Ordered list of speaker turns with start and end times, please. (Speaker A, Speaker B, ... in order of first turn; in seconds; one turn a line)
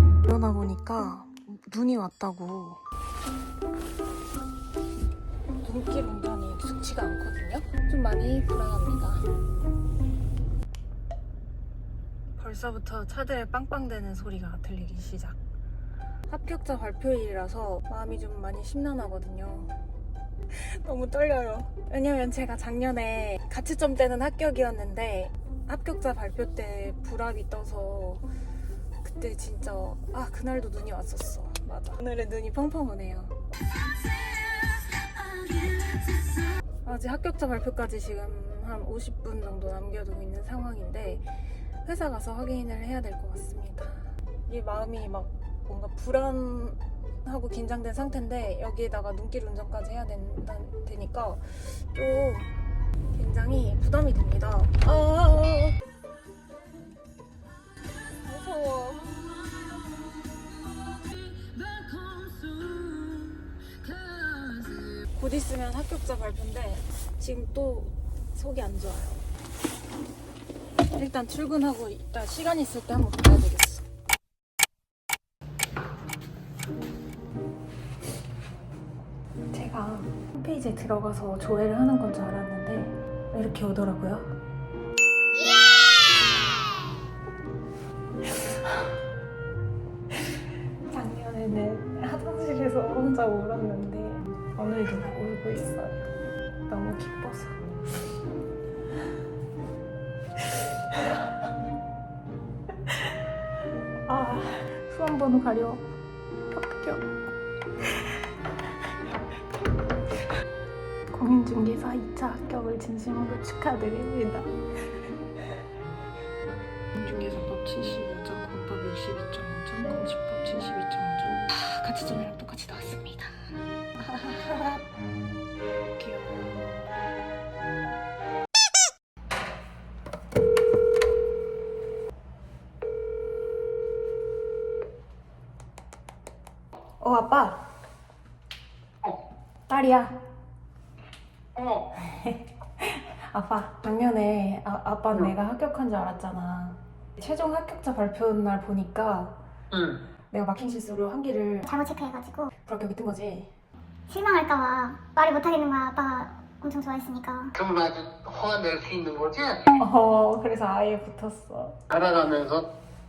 Speaker A: 0.2-2.8
Speaker A: 5.6-9.2
Speaker A: 12.4-15.4
Speaker A: 16.3-19.7
Speaker A: 20.5-28.3
Speaker A: 29.0-33.4
Speaker A: 34.2-36.2
Speaker A: 36.8-41.2
Speaker A: 41.8-52.5
Speaker A: 53.1-55.8
Speaker A: 58.1-60.0
Speaker A: 60.8-69.2
Speaker A: 70.9-73.8
Speaker A: 79.5-84.3
Speaker A: 90.9-96.0
Speaker A: 96.7-97.6
Speaker A: 104.1-105.8
Speaker A: 106.5-107.1
Speaker A: 111.1-114.5
Speaker A: 116.9-124.8
Speaker A: 126.0-126.9
Speaker A: 137.0-137.6
Speaker A: 139.7-140.2
Speaker B: 141.6-141.8
Speaker A: 141.9-149.4
Speaker B: 149.7-150.0
Speaker A: 150.3-151.7
Speaker C: 151.7-152.5
Speaker A: 152.6-153.5
Speaker C: 154.1-157.5
Speaker B: 157.6-159.6
Speaker A: 159.8-161.8
Speaker B: 161.9-162.7